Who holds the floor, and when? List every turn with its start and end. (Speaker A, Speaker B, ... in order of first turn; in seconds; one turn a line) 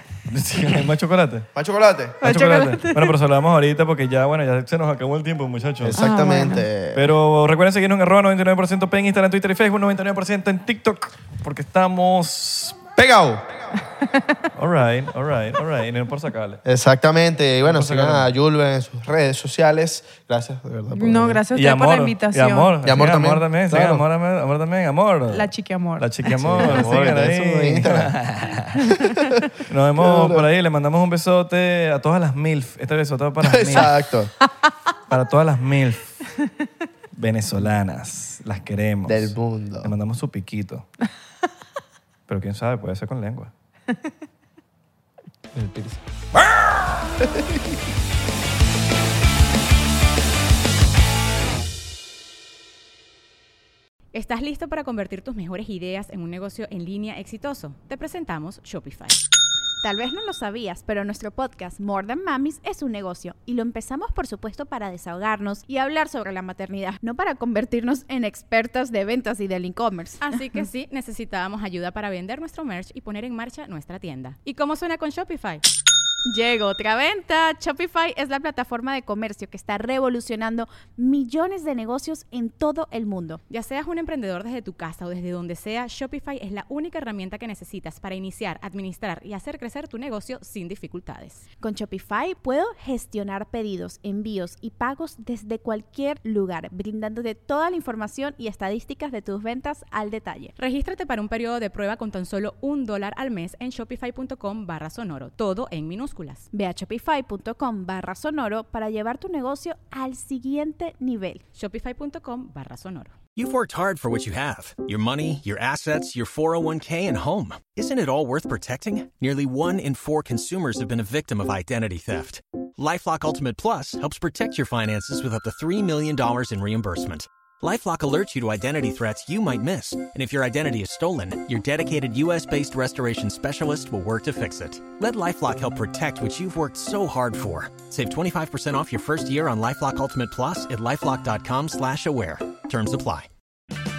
Speaker A: 0.3-1.5
Speaker B: 1.5-2.2
Speaker C: 2.2-3.1
Speaker A: 2.2-6.0
Speaker B: 5.8-7.0
Speaker C: 6.0-6.7
Speaker A: 6.9-12.8
Speaker B: 12.9-13.5
Speaker A: 14.6-16.6
Speaker B: 16.6-21.4
Speaker A: 17.6-18.2
Speaker C: 20.9-22.7
Speaker A: 21.5-28.9
Speaker B: 22.8-24.0
Speaker C: 25.3-27.0
Speaker B: 26.4-28.1
Speaker C: 28.8-29.1
Speaker B: 29.0-29.4
Speaker A: 29.6-34.0
Speaker B: 30.0-30.5
Speaker B: 33.4-34.3
Speaker A: 35.1-36.2
Speaker A: 37.1-40.9
Speaker B: 39.0-39.9
Speaker A: 42.3-43.5
Speaker B: 45.5-46.0
Speaker B: 47.2-47.5
Speaker D: 54.1-59.2
Speaker E: 59.8-70.5
Speaker D: 70.2-75.6
Speaker E: 76.2-83.4
Speaker D: 83.5-91.4
Speaker E: 91.6-100.5
Speaker D: 100.6-106.5
Speaker E: 106.5-111.4
Speaker D: 111.5-113.2
Speaker F: 113.3-143.3